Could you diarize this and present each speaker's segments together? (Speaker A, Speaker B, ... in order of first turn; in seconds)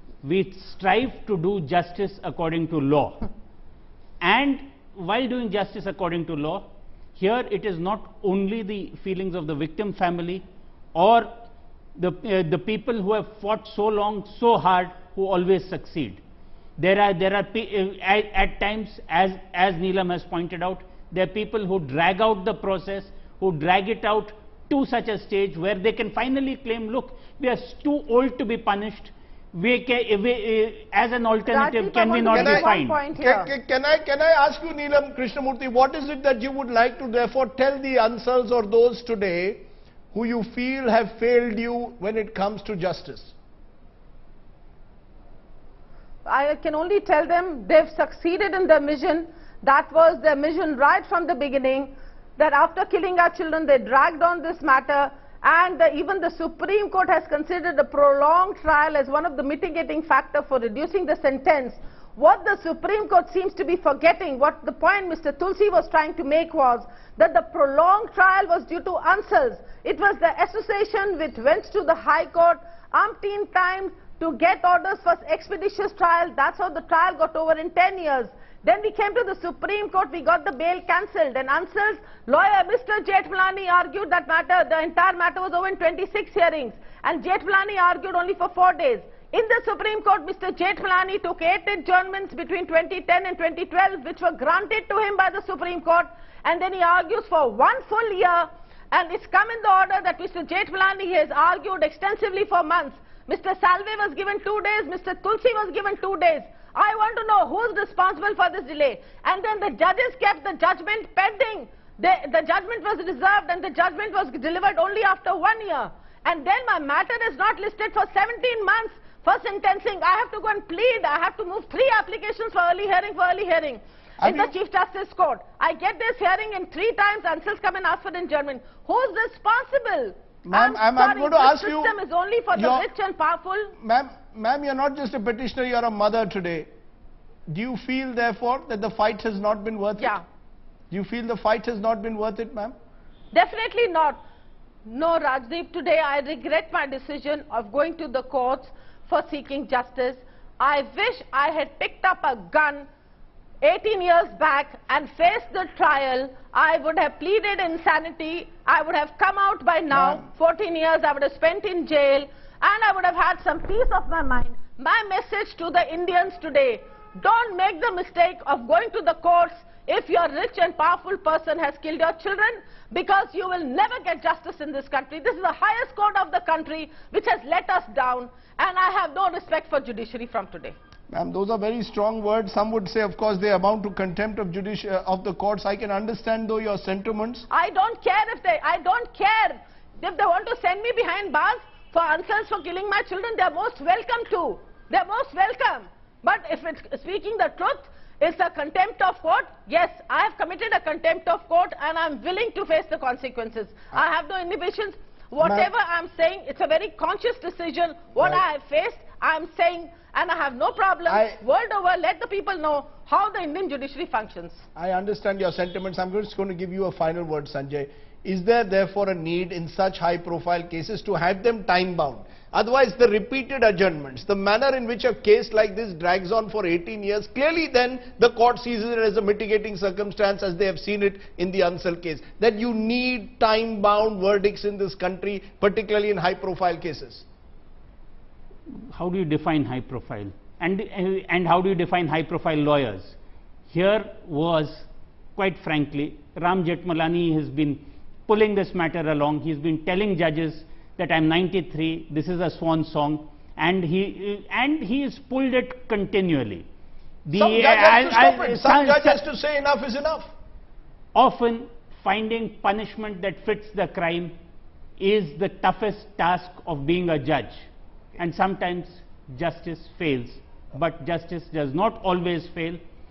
Speaker A: 0.2-3.3, 4.2-11.3, 11.9-16.2, 16.8-33.0, 238.7-243.1, 243.7-256.7, 257.2-259.2, 261.1-264.3, 265.0-267.6, 268.2-272.8
Speaker B: 31.5-33.5, 46.2-133.8, 140.0-140.2, 143.3-144.2, 144.8-152.9, 153.6-180.8, 187.5-214.6
Speaker C: 32.3-43.3, 124.2-124.5, 130.4-131.9, 132.5-132.9, 133.8-136.7, 137.5-140.2, 140.9-142.7, 159.9-160.2, 181.1-187.5, 205.4-205.7, 211.1-211.4, 214.8-237.2, 257.3-260.3